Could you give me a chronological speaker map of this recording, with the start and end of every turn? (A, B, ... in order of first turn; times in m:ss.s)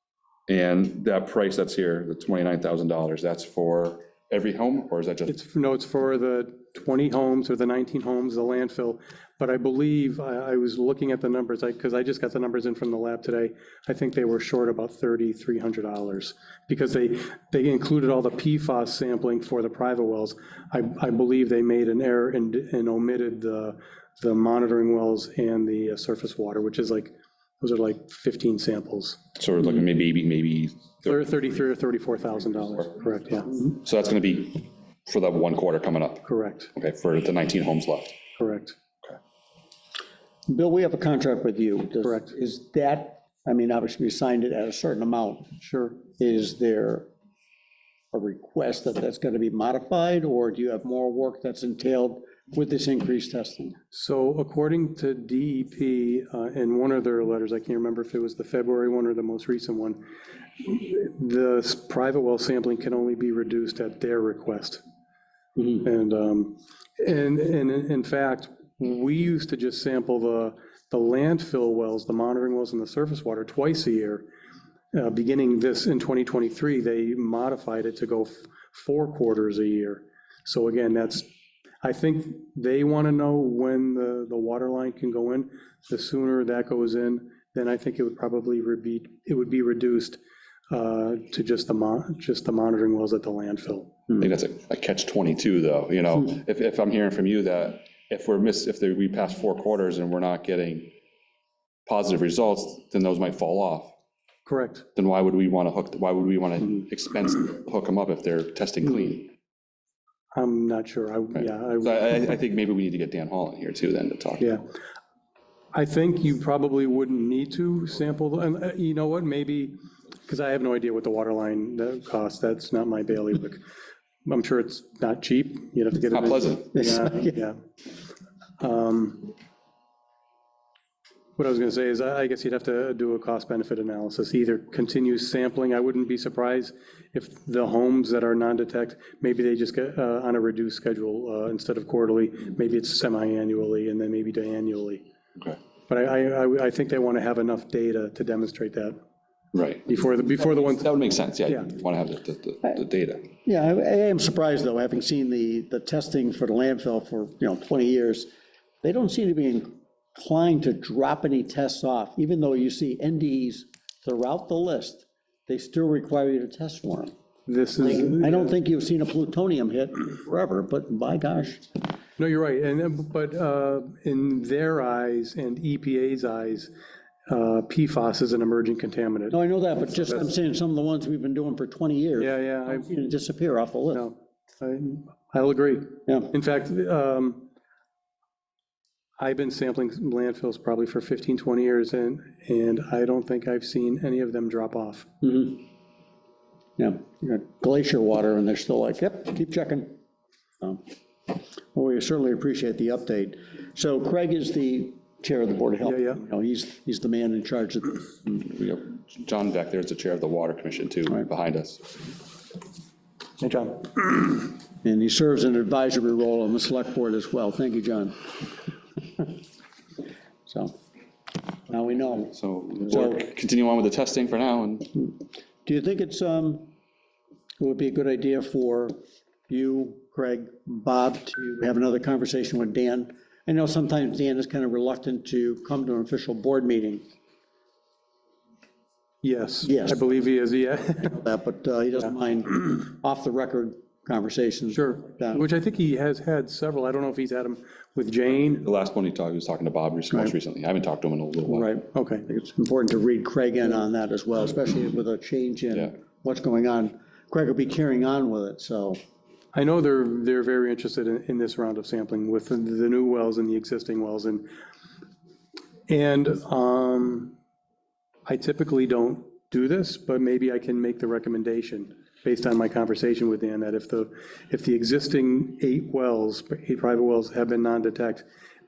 0:00.5-0:05.3 A
0:05.3-0:29.2 B
0:29.4-0:31.2 A
0:31.0-0:33.6 B
0:33.8-0:38.1 A
0:36.2-0:36.7 B
0:38.4-0:38.8 B
0:40.5-0:45.5 C
0:42.0-0:42.3 B
0:45.6-0:46.0 B
0:46.2-0:47.1 C
0:48.1-0:53.8 C
0:53.9-1:00.0 B
1:00.6-1:04.8 B
1:05.7-1:14.2 B
1:14.9-1:21.3 B
1:21.8-1:30.2 B
1:30.7-1:33.9 B
1:34.2-1:40.9 A
1:41.8-1:43.9 A
1:44.4-1:44.8 B
1:45.0-1:49.3 A
1:50.3-1:52.2 B
1:51.4-1:54.6 A
1:55.7-1:59.7 B
2:00.3-2:03.6 B
2:04.2-2:07.6 B
2:06.1-2:06.6 A
2:06.7-2:07.4 C
2:08.6-2:09.3 B
2:11.4-2:25.0 B
2:25.9-2:29.0 B
2:29.5-2:33.3 A
2:29.9-2:30.9 B
2:31.4-2:31.7 B
2:33.4-2:38.3 C
2:38.8-2:47.1 C
2:47.4-2:48.5 B
2:47.8-2:51.7 C
2:52.2-2:56.7 B
2:57.3-2:59.4 B
2:59.3-3:04.0 C
3:02.2-3:02.9 B
3:03.9-3:07.4 B
3:06.1-3:06.3 C
3:09.2-3:15.1 B
3:15.2-3:15.7 C
3:16.8-3:20.0 C
3:20.6-3:28.3 C
3:25.8-3:26.2 B
3:28.4-3:32.0 A
3:33.4-3:33.9 B
3:34.8-3:38.3 C
3:40.5-3:40.8 C
3:41.7-3:42.3 C
3:42.2-3:44.9 A
3:42.9-3:43.2 C
3:45.6-3:46.7 C
3:47.6-3:49.0 C
3:49.5-3:57.0 C
3:59.2-4:01.1 B
3:59.6-4:00.0 C
4:01.0-4:05.4 C
4:04.7-4:08.6 B
4:08.6-4:11.7 A
4:11.4-4:19.0 C
4:11.9-4:12.2 B
4:19.5-4:24.4 B
4:25.9-4:27.3 B
4:28.2-4:38.2 B